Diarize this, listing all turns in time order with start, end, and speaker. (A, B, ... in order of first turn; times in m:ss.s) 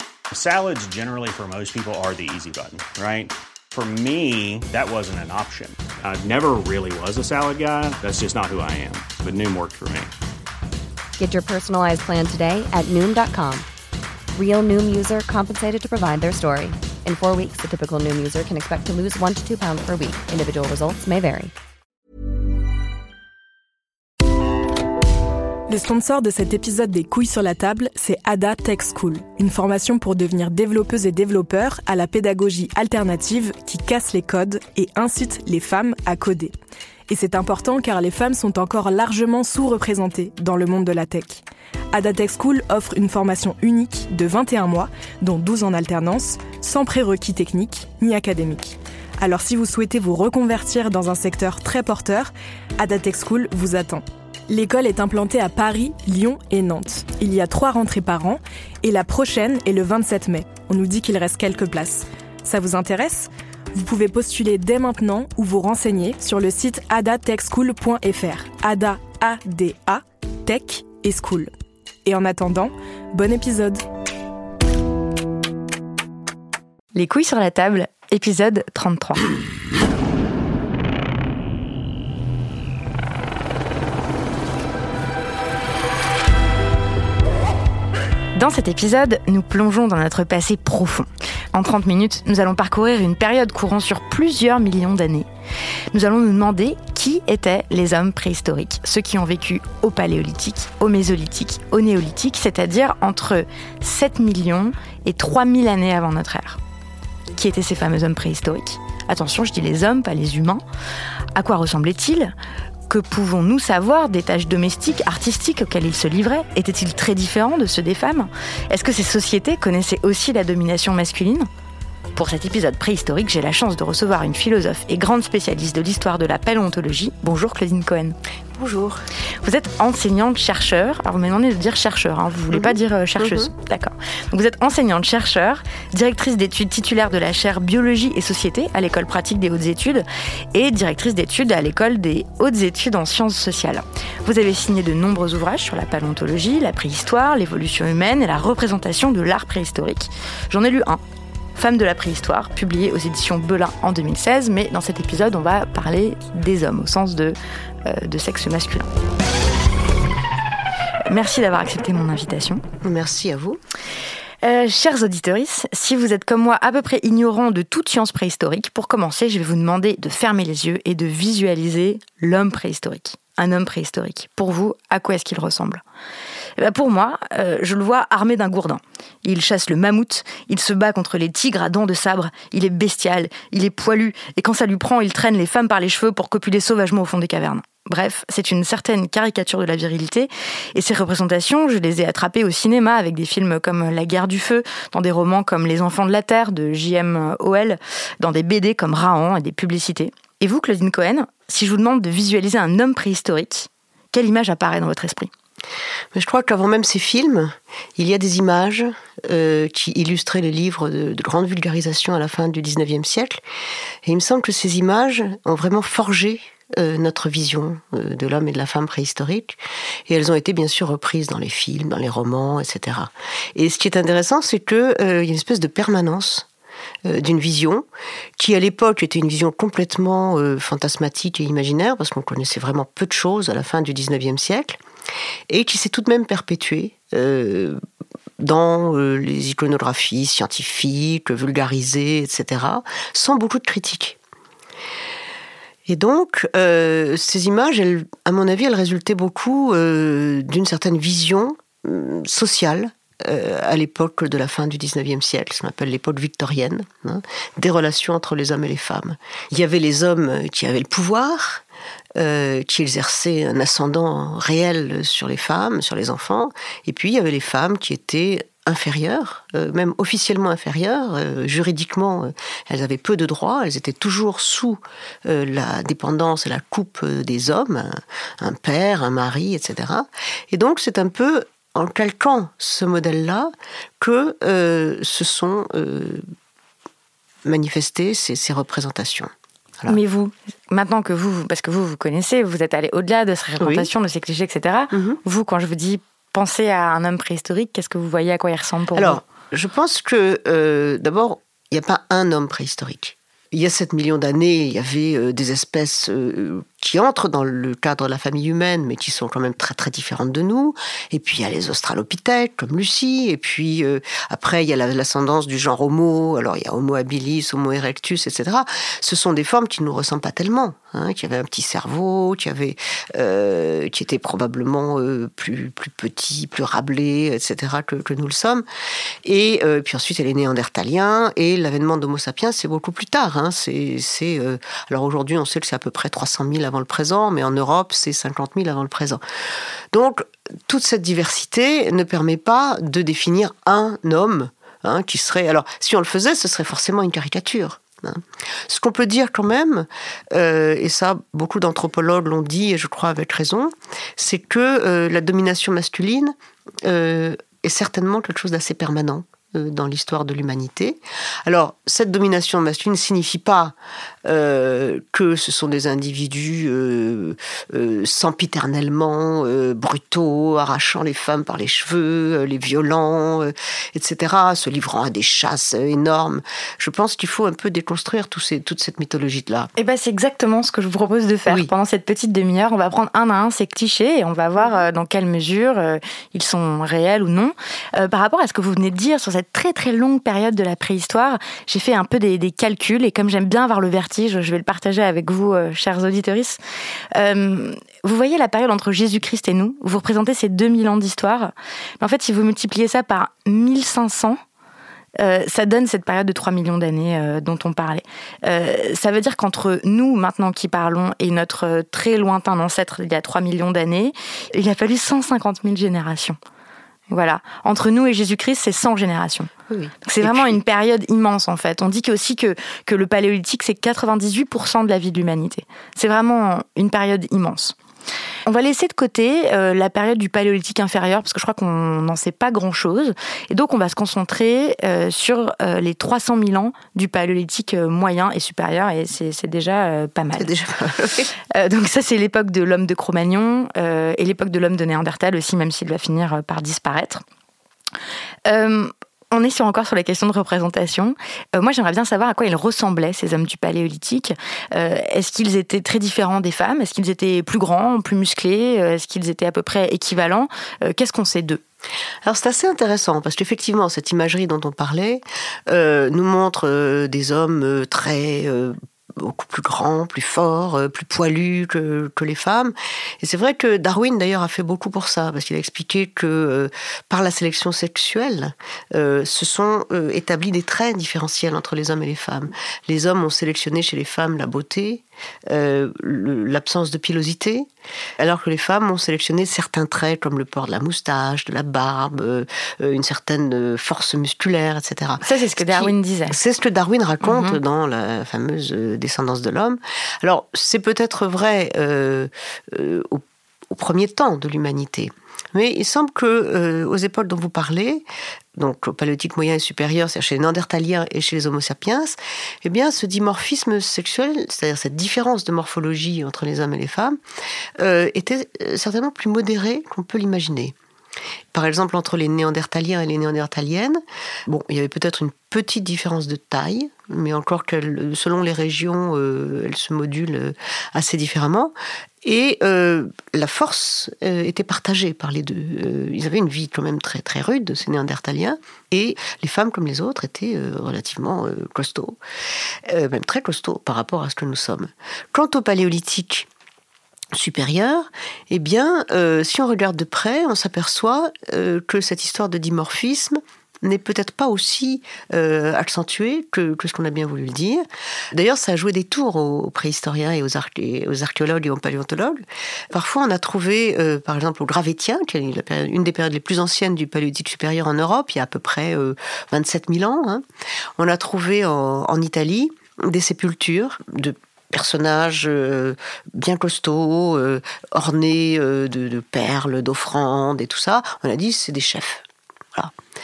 0:00.3-0:10.1 A
0:11.2-0:13.7 B
0:14.4-0:21.5 B
0:25.7-0:36.5 C
0:37.1-1:11.5 C
1:12.0-1:13.8 C
1:17.0-1:19.3 D
1:28.4-1:35.3 D
1:35.9-1:46.6 D
1:47.3-1:50.6 D
1:51.4-1:52.3 D
1:52.9-2:01.5 D
2:02.2-2:08.2 D
2:08.5-2:09.0 E
2:09.4-2:31.0 D
2:12.5-2:13.5 E
2:31.6-2:38.9 D
2:41.1-2:42.6 D
2:42.8-2:43.6 E
2:44.4-2:55.8 D
2:56.6-3:25.3 D
3:26.1-3:33.4 E
3:34.0-3:46.5 E
3:47.0-3:47.9 E
3:48.4-3:54.8 E
3:55.5-3:57.8 E
3:58.4-4:04.2 E
4:05.9-4:21.6 E
4:22.2-4:46.2 E
4:47.4-4:50.0 E
4:49.9-4:59.2 D
4:53.6-4:53.9 E
4:54.9-4:55.2 E
4:59.0-5:28.6 E
5:29.2-5:39.2 E
5:39.9-6:19.7 E
6:19.8-6:36.6 D
6:24.6-6:24.8 E
6:37.1-6:44.4 D
6:45.2-6:56.4 D
6:57.1-6:59.5 D
6:59.7-7:00.6 E
7:00.0-7:07.8 D
7:08.5-7:20.5 D
7:20.4-7:21.3 E
7:21.5-7:27.2 D
7:28.5-7:41.6 D
7:42.2-8:07.7 E
8:08.2-8:28.0 E
8:15.2-8:16.4 D
8:17.2-8:17.6 D
8:28.6-8:37.2 E
8:37.8-8:40.8 E
8:41.5-9:02.2 E
9:02.9-9:06.5 E
9:07.3-9:30.4 E
9:31.0-9:42.9 E